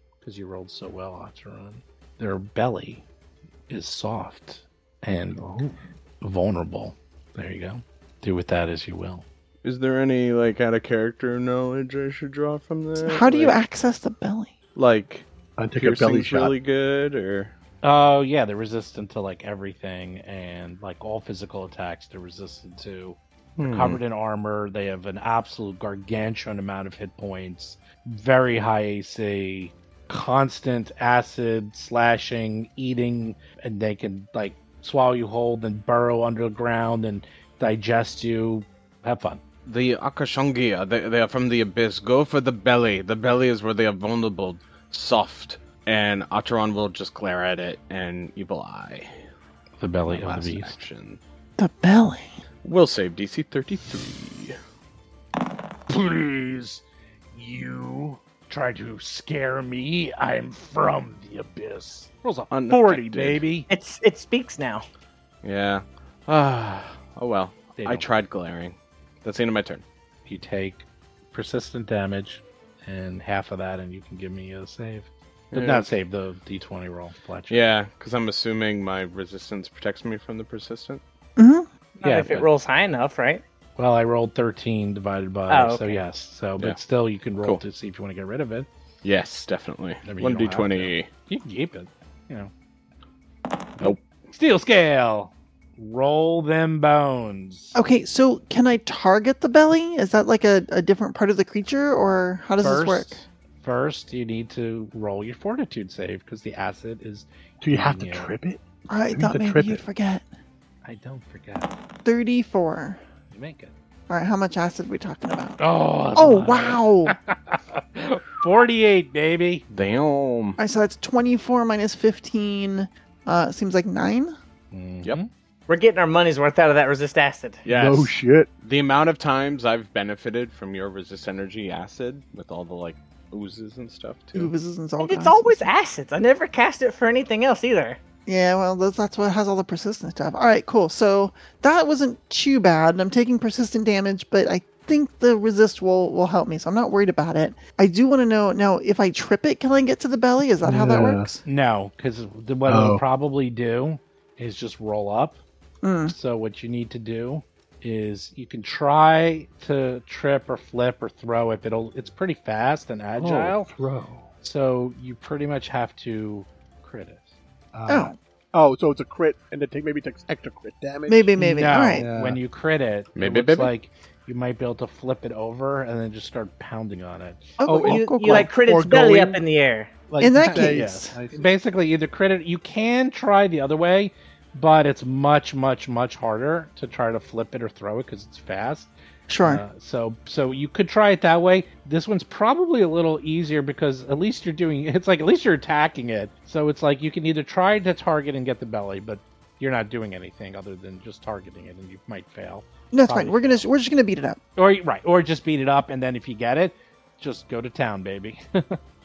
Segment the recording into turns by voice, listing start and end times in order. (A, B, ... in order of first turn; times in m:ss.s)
0:00.2-0:03.0 A
0:03.7-0:09.2 A
0:09.6-0:13.6 B
0:13.0-0:14.5 C
0:14.8-0:17.5 B
0:15.6-0:16.6 D
0:17.8-0:39.4 A
0:23.6-0:24.0 B
0:39.6-0:49.1 B
0:49.8-0:50.8 A
0:50.1-0:51.2 B
0:51.6-0:52.3 C
0:52.6-0:54.6 B
0:55.9-0:56.8 A
0:57.3-1:03.7 A
1:02.5-1:03.4 B
1:03.7-1:04.8 E
1:05.4-1:09.8 B
1:07.8-1:08.1 A
1:10.3-1:17.6 A
1:15.5-1:15.9 B
1:17.5-1:21.0 B
1:21.4-1:21.7 C
1:22.0-1:23.4 E
1:22.0-1:22.5 A
1:23.8-1:28.7 A
1:25.5-1:26.0 E
1:29.0-1:31.1 B
1:30.0-1:32.5 A
1:33.8-1:37.8 A
1:37.8-1:43.2 C
1:42.6-1:48.4 A
1:47.6-1:48.6 D
1:48.9-1:50.2 C
1:49.1-1:49.8 D
1:50.8-1:51.7 A
1:52.0-1:53.0 C
1:53.3-1:53.7 A
1:54.1-1:55.6 C
1:55.6-1:59.6 A
1:56.2-1:57.2 C
1:59.7-2:00.6 B
2:00.6-2:04.4 C
2:04.7-2:05.3 A
2:05.7-2:07.6 E
2:07.6-2:14.5 B
2:07.7-2:08.5 D
2:14.4-2:15.7 C
2:15.0-2:18.0 E
2:18.3-2:31.4 C
2:30.6-2:31.3 D
2:31.4-2:35.4 A
2:32.7-2:33.0 D
2:35.8-2:36.1 C
2:36.1-2:43.7 A
2:43.2-2:44.3 D
2:44.4-2:47.3 A
2:47.7-2:51.3 D
2:47.9-2:48.2 C
2:51.1-2:52.1 C
2:51.4-2:57.6 A
2:52.0-2:52.4 D
2:53.2-2:53.7 B
2:57.6-2:59.0 C
2:57.6-2:59.4 D
2:57.8-2:59.9 E
3:00.1-3:01.5 D
3:00.2-3:01.2 C
3:00.3-3:08.9 A
3:09.3-3:09.6 C
3:09.4-3:23.6 A
3:22.9-3:24.4 C
3:24.6-3:28.8 A